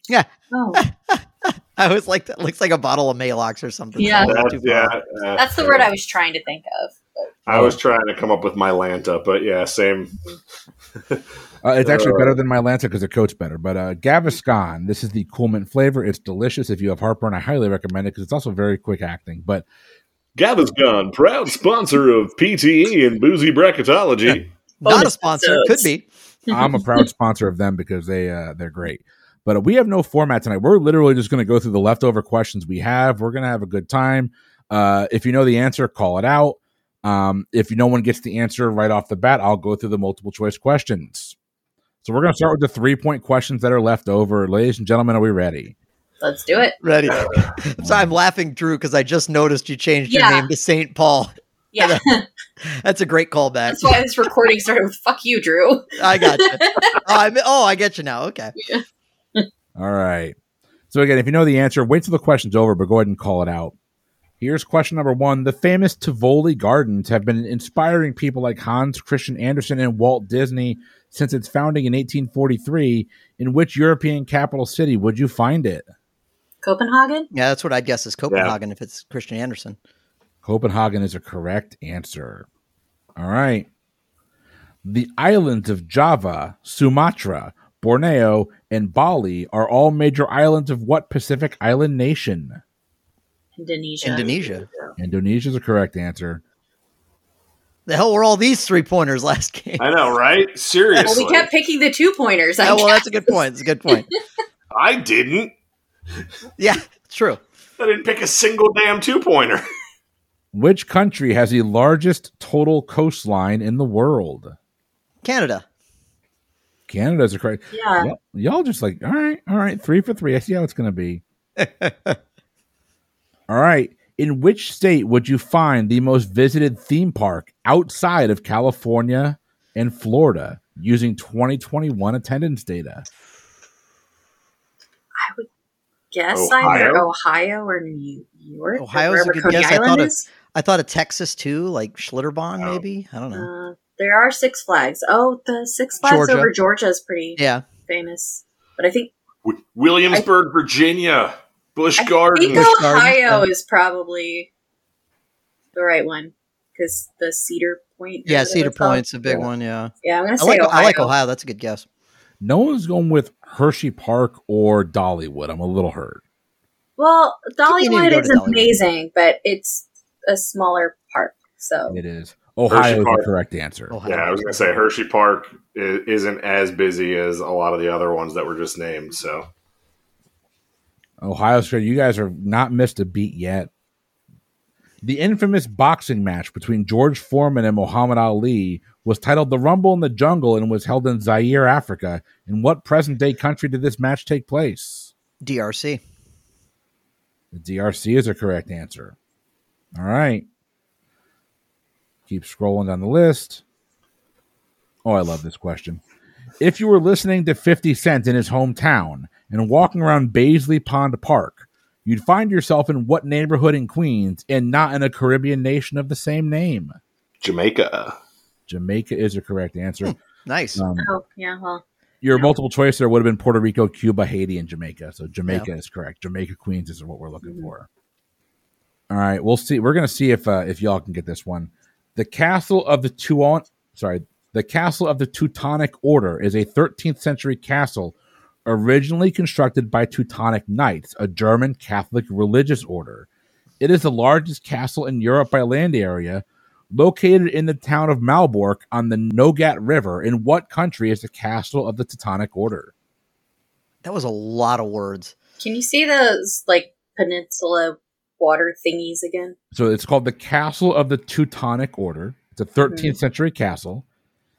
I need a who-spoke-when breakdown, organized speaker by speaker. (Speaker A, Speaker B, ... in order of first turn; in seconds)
Speaker A: 0.1-5.0, 24.8-26.1, 46.8-52.0, 52.6-54.0, 56.0-58.5, 77.3-79.8, 94.0-94.7, 97.9-99.8, 102.6-104.0, 106.6-107.4, 115.2-115.6, 121.6-122.2, 138.8-143.5, 146.0-146.5, 147.4-147.6, 152.5-153.4, 158.2-161.8, 167.7-168.7, 173.9-174.4, 195.4-196.0, 220.1-220.8, 254.0-255.3
Speaker B: 0.5-0.8, 4.0-4.5, 5.4-7.3, 24.8-25.9, 26.5-27.0, 46.2-46.8, 50.1-50.5, 51.7-52.2, 53.7-57.0, 76.6-77.3, 93.6-94.4, 100.9-103.4, 117.7-118.1, 135.2-135.5, 136.1-140.3, 143.3-149.1, 152.0-154.5, 155.7-159.5, 160.0-161.1, 167.0-172.0, 221.0-221.8, 227.4-227.7, 255.6-259.6, 262.8-263.1
Speaker C: 4.2-5.9, 7.5-10.1, 11.8-12.3, 20.4-24.5, 78.3-78.6, 99.8-101.5, 104.7-105.5, 107.8-109.6, 136.3-137.1, 149.4-152.7, 172.7-173.3, 174.1-179.4, 217.4-218.2
Speaker D: 7.5-7.8, 11.6-19.6, 26.5-41.4, 42.0-45.7, 47.8-48.1, 59.8-60.4, 60.9-63.7, 64.4-75.8, 80.4-82.5, 83.2-83.7, 84.8-92.6, 95.0-96.4, 110.5-114.5, 116.9-121.2, 123.5-133.1, 162.4-166.2, 171.9-173.9, 181.2-183.7, 185.0-195.1, 197.5-199.1, 199.9-200.4, 202.3-203.6, 205.0-206.0, 206.6-216.9, 218.7-220.1, 220.8-221.1, 222.2-227.9, 229.1-243.3, 243.8-252.9, 259.7-264.0